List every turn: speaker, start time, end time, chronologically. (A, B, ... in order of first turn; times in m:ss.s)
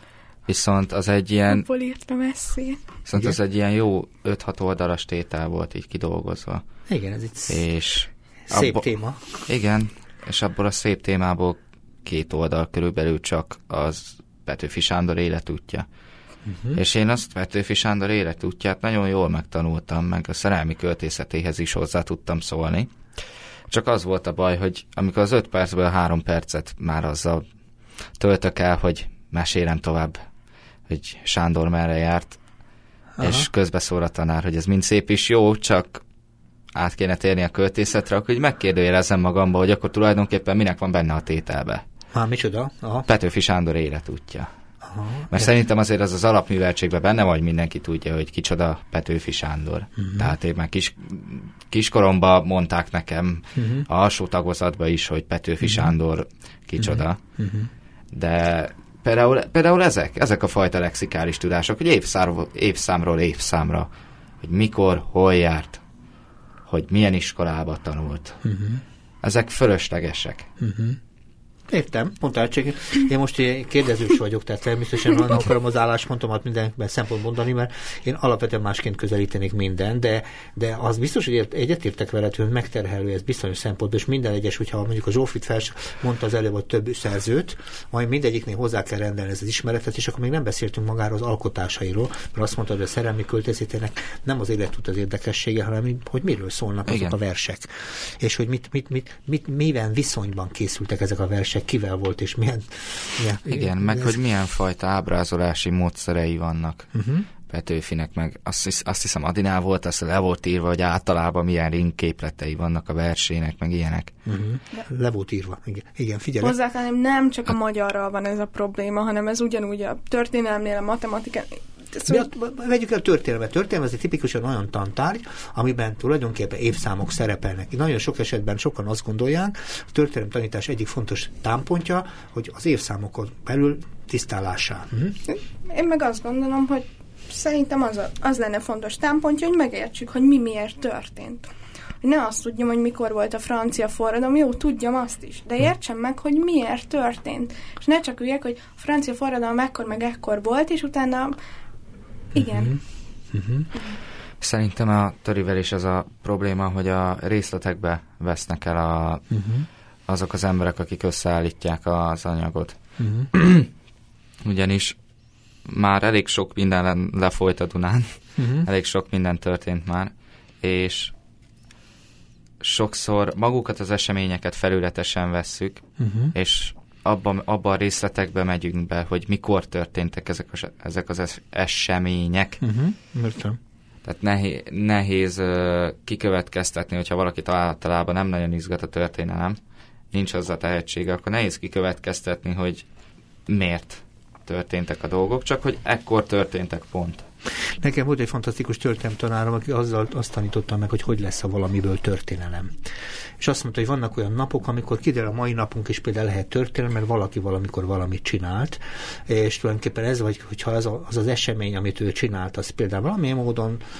0:00.5-0:01.7 A
0:01.5-0:02.9 B
0:03.1-0:06.6 A
0:06.9-0:07.6 C
0:07.5-0:15.9 A
0:08.5-0:09.4 C
0:16.5-0:16.8 C
0:16.8-0:22.9 A
0:23.7-0:27.4 A
0:28.2-0:30.2 A
0:30.9-0:32.4 A
0:33.2-0:33.5 C
0:33.2-0:36.0 A
0:36.7-0:41.8 A
0:42.1-0:43.1 C
0:43.1-0:44.5 A
0:44.8-0:45.5 C
0:45.3-0:57.2 A
0:50.0-0:50.4 C
0:53.6-0:53.9 C
0:55.6-0:55.9 C
0:56.8-0:57.7 C
0:58.1-1:03.9 A
1:04.4-1:05.8 A
1:06.7-1:08.4 A
1:08.4-1:08.8 C
1:09.2-1:10.5 A
1:10.6-1:11.0 C
1:11.7-1:44.2 C
1:36.9-1:37.2 A
1:43.4-1:46.9 A
1:46.9-1:47.3 C
1:47.5-1:54.1 A
1:54.3-1:56.6 C
1:56.4-2:02.3 B
2:02.1-2:15.2 C
2:15.3-2:21.5 B
2:22.0-2:31.4 B
2:32.4-2:32.8 B
2:32.4-2:32.8 C
2:33.3-2:33.7 C
2:34.4-2:39.4 A
2:39.3-2:39.7 C
2:40.1-2:42.8 A
2:43.0-2:43.3 C
2:43.3-2:43.7 A
2:44.4-2:45.0 A
2:45.7-2:51.1 A
2:48.4-2:48.7 C
2:52.6-3:02.6 A
2:56.0-2:56.4 C
3:02.6-3:03.6 C
3:04.0-3:09.6 A
3:10.1-3:12.9 A
3:13.5-3:17.2 A
3:17.8-3:22.8 C
3:23.4-3:33.8 C